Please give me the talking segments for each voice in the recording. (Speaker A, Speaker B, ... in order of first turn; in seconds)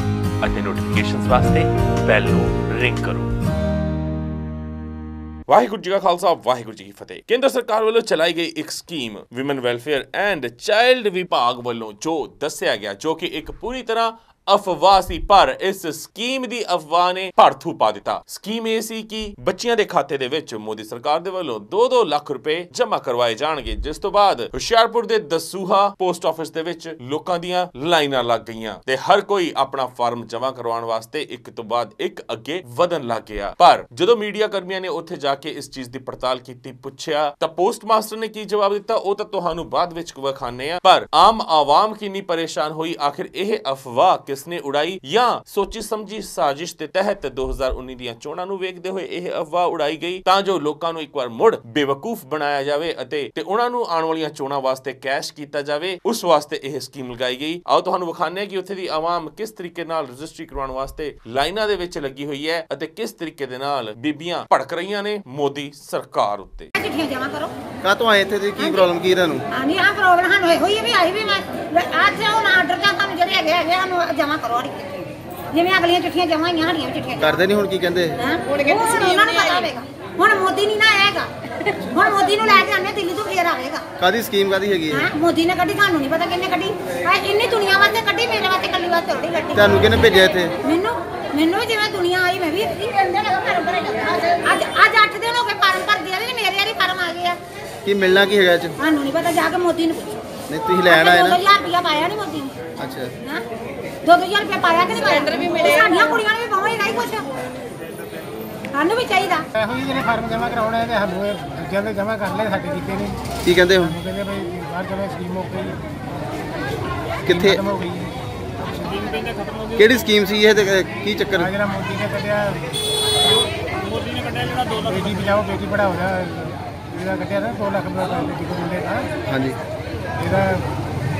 Speaker A: 0.4-3.3, 5.5-66.7
Speaker B: 66.8-67.5, 68.6-68.9, 69.5-74.9, 75.5-77.4, 78.2-83.8, 84.9-89.7, 90.6-97.4, 98.8-100.2, 100.9-102.6, 104.0-107.3, 108.7-109.5
Speaker C: 67.8-69.4, 77.2-78.2, 84.0-85.1, 89.5-90.5, 97.8-98.8, 100.5-101.4, 102.8-103.1, 113.4-114.0, 117.2-117.6, 119.7-121.5, 129.3-129.6
Speaker D: 109.6-113.3, 113.9-115.8, 117.5-118.1, 118.8-119.4, 121.5-122.7, 124.0-129.1, 130.2-130.6